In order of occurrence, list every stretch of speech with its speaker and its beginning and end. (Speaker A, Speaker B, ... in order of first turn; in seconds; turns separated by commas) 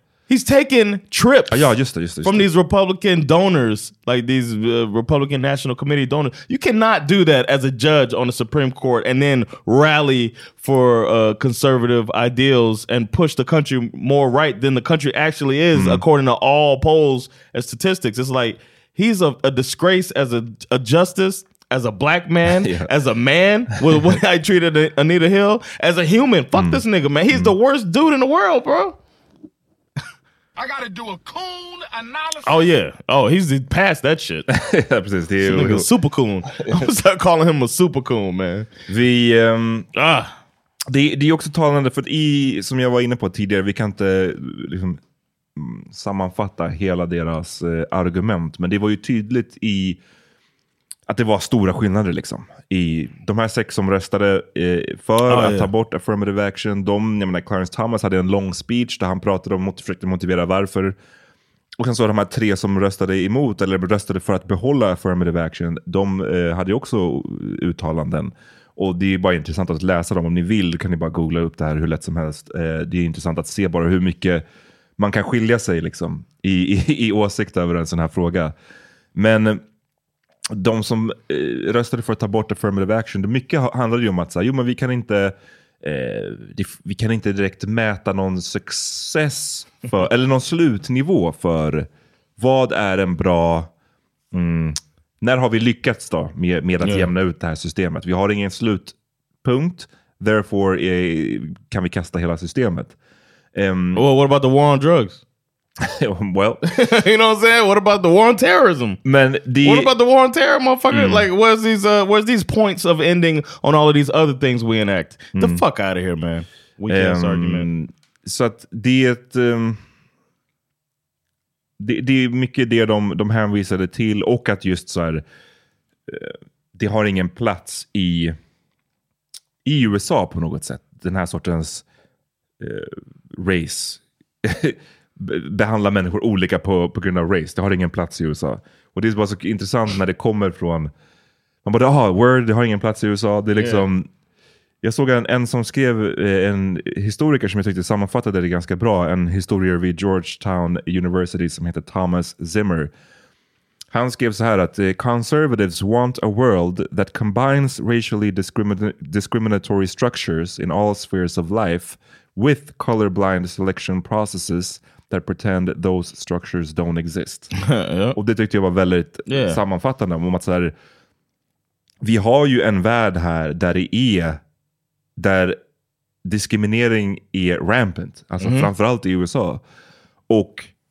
Speaker A: 0.3-29.0, Speaker B: 1.5-2.5, Speaker B: 15.7-16.1, Speaker B: 22.5-22.9, Speaker B: 26.6-27.5, Speaker C: 30.6-32.6, Speaker A: 32.4-34.5, Speaker B: 34.5-35.9, Speaker A: 35.4-38.7, Speaker B: 36.5-36.8, Speaker B: 38.9-39.9, Speaker A: 40.0-40.3, Speaker B: 40.9-45.0, Speaker B: 45.5-50.0, Speaker B: 51.1-61.0, Speaker A: 55.3-55.7, Speaker B: 61.8-74.4, Speaker B: 75.0-78.5, Speaker B: 79.1-79.6, Speaker B: 80.5-93.7, Speaker B: 94.3-102.9, Speaker A: 96.8-97.1, Speaker B: 103.5-104.0, Speaker A: 103.9-105.2, Speaker B: 105.8-106.6, Speaker A: 106.7-109.0, Speaker B: 109.0-109.9, Speaker A: 109.6-117.7, Speaker B: 110.9-111.2, Speaker B: 115.3-115.6, Speaker B: 116.9-119.8, Speaker B: 121.8-125.2, Speaker B: 126.1-128.3, Speaker B: 129.6-131.8, Speaker B: 132.6-140.9, Speaker B: 141.6-144.1, Speaker A: 143.6-143.9, Speaker B: 144.8-152.9, Speaker B: 153.9-167.5, Speaker A: 167.7-168.2, Speaker B: 168.1-170.7, Speaker A: 169.3-169.6, Speaker B: 172.0-174.4, Speaker B: 175.2-175.6, Speaker B: 176.2-179.6, Speaker A: 178.4-178.7, Speaker B: 180.3-180.7